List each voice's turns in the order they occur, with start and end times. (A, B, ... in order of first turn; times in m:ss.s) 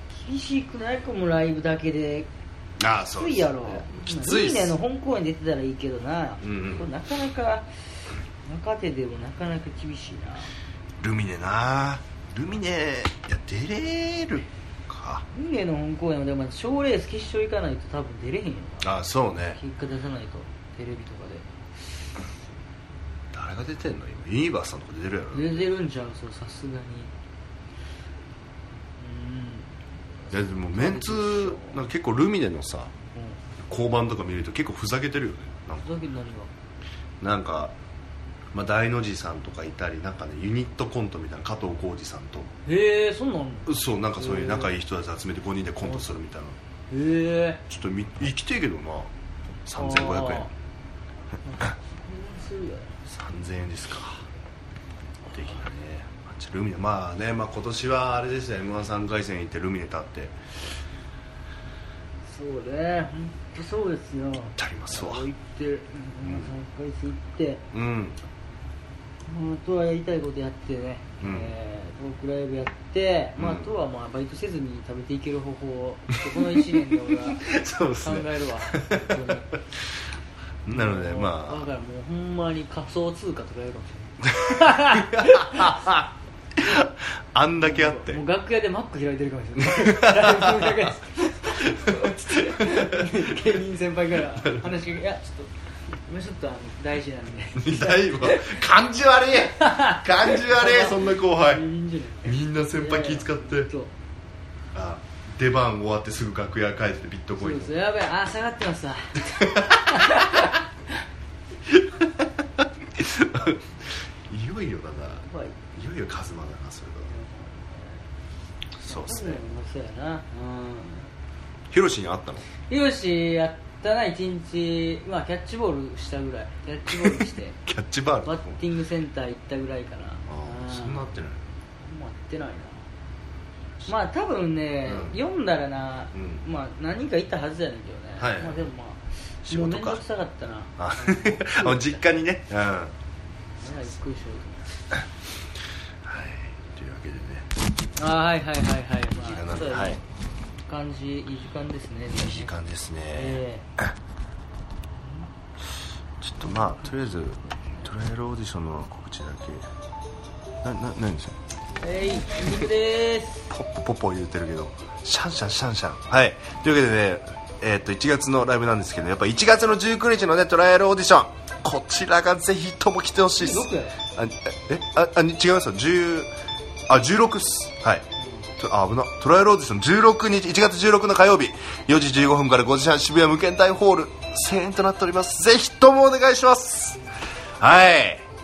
0:00.1-0:02.3 A
0:02.8-0:04.8 B
0:03.2-0:07.7 A
0:06.4-0:06.9 B
0:08.4-0:10.5 A
0:11.0-0:15.2 B
0:15.3-0:18.9 A
0:18.8-0:19.6 B
0:19.6-0:21.5 A
0:23.3-0:25.6 B
0:25.3-0:27.1 A
0:29.0-0:29.7 A
0:30.3-0:32.9 B
0:30.7-0:31.8 A
0:33.6-0:35.8 B
0:35.8-0:36.5 A
0:37.2-0:37.7 B
0:38.5-0:42.5 B
0:42.7-0:44.8 A
0:43.7-0:46.6 B
0:45.9-0:46.1 A
0:46.9-0:47.6 A
0:47.7-0:49.1 B
0:49.7-0:50.5 B
0:49.8-0:50.5 A
0:51.4-0:53.0 A
0:53.1-0:54.3 B
0:55.3-0:55.6 A
0:55.3-1:00.4 B
1:02.3-1:07.6 A
1:04.6-1:05.3 B
1:06.2-1:06.5 B
1:07.7-1:08.2 B
1:09.3-1:17.5 A
1:11.2-1:11.5 B
1:13.4-1:13.7 B
1:16.3-1:19.8 B
1:18.0-1:19.5 A
1:20.7-1:21.6 B
1:20.7-1:25.9 A
1:24.3-1:28.2 B
1:27.6-1:35.5 A
1:29.6-1:30.9 B
1:31.6-1:33.4 B
1:36.0-1:38.6 A
1:37.6-1:41.6 B
1:39.5-1:43.9 A
1:42.2-1:43.7 B
1:44.7-1:47.7 B
1:47.4-1:50.6 A
1:49.4-1:50.4 B
1:51.7-1:57.1 B
1:55.3-1:55.6 A
1:57.1-1:58.0 A
1:58.8-1:59.4 B
1:58.8-2:01.1 A
2:01.7-2:02.4 B
2:02.7-2:07.6 A
2:06.9-2:08.6 B
2:08.2-2:11.1 A
2:10.3-2:11.4 B
2:11.8-2:12.8 A
2:13.9-2:22.0 A
2:14.9-2:15.2 B
2:16.1-2:16.4 B
2:18.2-2:18.6 B
2:19.5-2:20.0 B
2:20.8-2:22.9 B
2:23.6-2:24.8 A
2:26.0-2:27.5 B
2:28.0-2:30.0 A
2:29.1-2:30.0 B
2:30.7-2:32.6 A
2:32.1-2:33.9 B
2:33.1-2:33.7 A
2:36.2-2:39.7 B
2:40.6-2:41.4 B
2:41.8-2:43.5 A
2:43.5-2:56.3 B
2:53.4-2:54.0 A
2:56.9-2:58.0 B
2:58.2-2:58.5 A
2:58.6-3:07.0 B
3:07.6-3:08.2 B